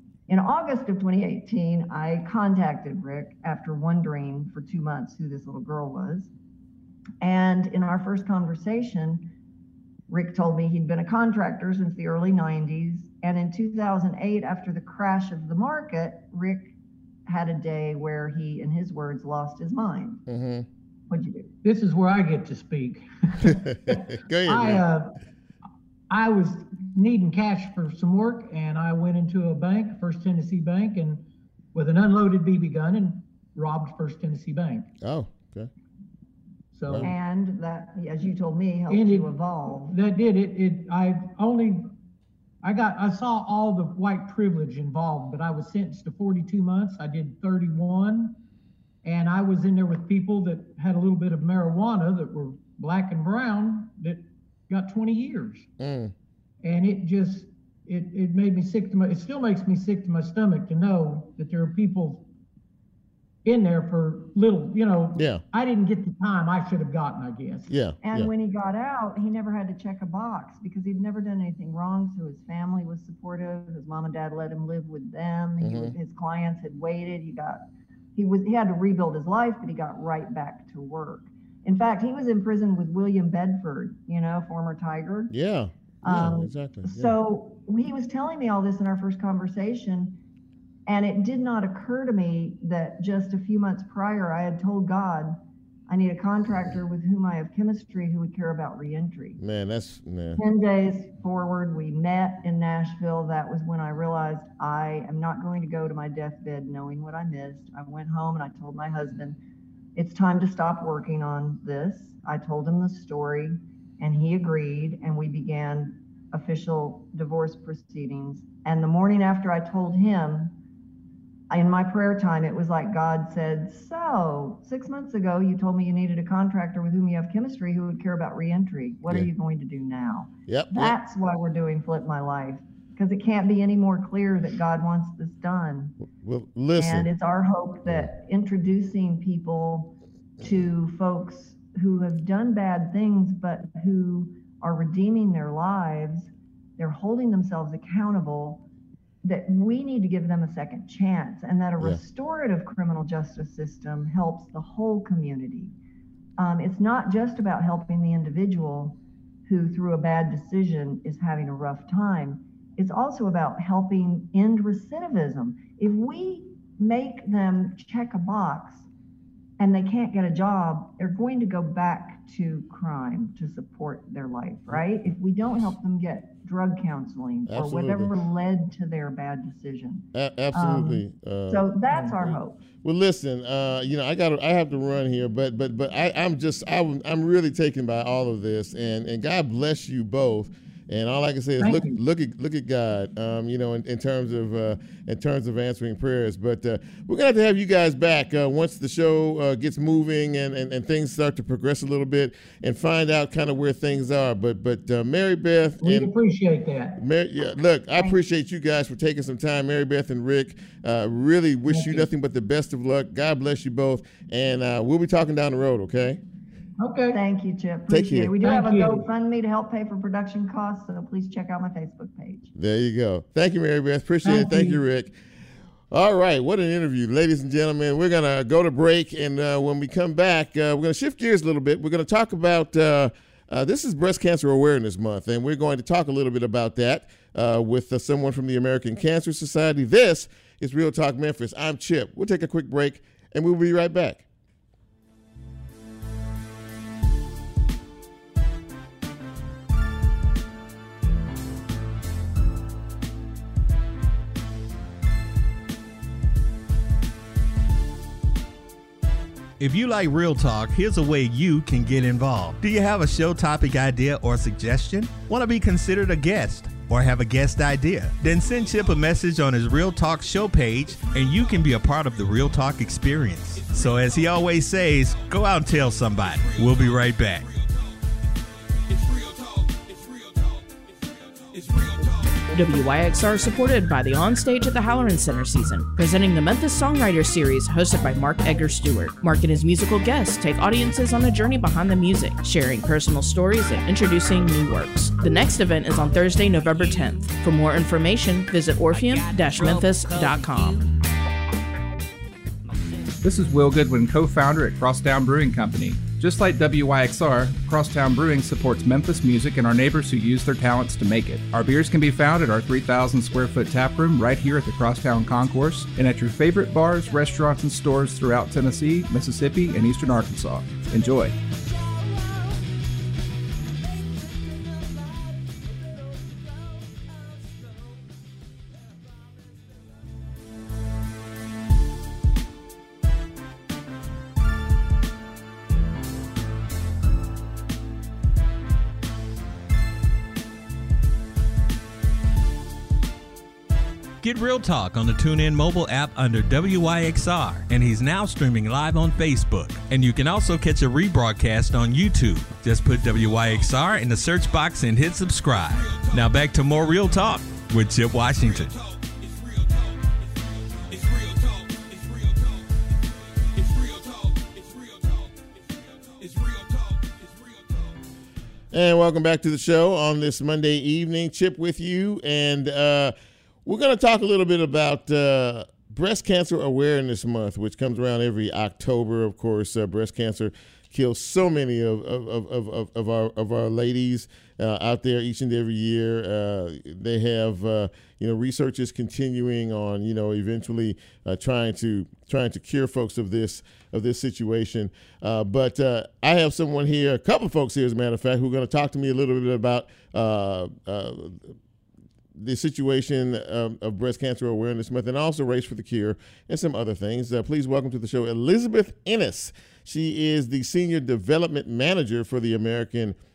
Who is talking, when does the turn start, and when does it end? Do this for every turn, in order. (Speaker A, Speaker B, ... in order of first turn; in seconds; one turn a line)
Speaker A: 0.3-6.3
Speaker A: 7.2-9.3
Speaker A: 10.1-16.7
Speaker A: 17.3-20.2
Speaker B: 20.3-20.7
Speaker A: 21.1-21.5
Speaker C: 21.6-25.2
Speaker B: 23.5-24.8
Speaker C: 26.1-34.9
Speaker B: 35.0-35.7
Speaker C: 36.7-37.1
Speaker A: 37.0-40.0
Speaker C: 38.9-39.3
Speaker C: 39.9-42.0
Speaker C: 42.6-48.4
Speaker C: 49.0-55.7
Speaker B: 55.8-56.1
Speaker C: 56.6-62.3
Speaker C: 63.4-67.7
Speaker B: 65.1-65.4
Speaker B: 67.7-68.3
Speaker A: 68.0-77.6
Speaker B: 75.6-75.9
Speaker A: 78.2-85.3
Speaker B: 85.3-87.2
Speaker A: 86.0-90.2
Speaker A: 90.9-99.4
Speaker B: 99.4-100.4
Speaker A: 100.4-109.4
Speaker A: 110.0-120.5
Speaker A: 121.5-135.9
Speaker B: 130.5-131.0
Speaker B: 136.1-137.1
Speaker A: 136.8-148.6
Speaker A: 149.2-155.7
Speaker A: 156.4-168.9
Speaker A: 169.6-182.6
Speaker B: 177.5-178.1
Speaker B: 180.1-206.1
Speaker C: 191.6-192.0
Speaker C: 205.8-207.0
Speaker B: 207.0-216.2
Speaker C: 211.7-212.1
Speaker C: 216.8-217.2
Speaker A: 217.1-222.5
Speaker B: 217.9-218.3
Speaker C: 218.4-219.1
Speaker B: 222.6-225.1
Speaker C: 224.2-224.8
Speaker B: 225.9-244.2
Speaker D: 259.6-277.5
Speaker E: 282.5-300.9
Speaker F: 303.2-321.3
Speaker D: 344.2-358.7
Speaker B: 368.7-401.5
Speaker B: 402.3-413.1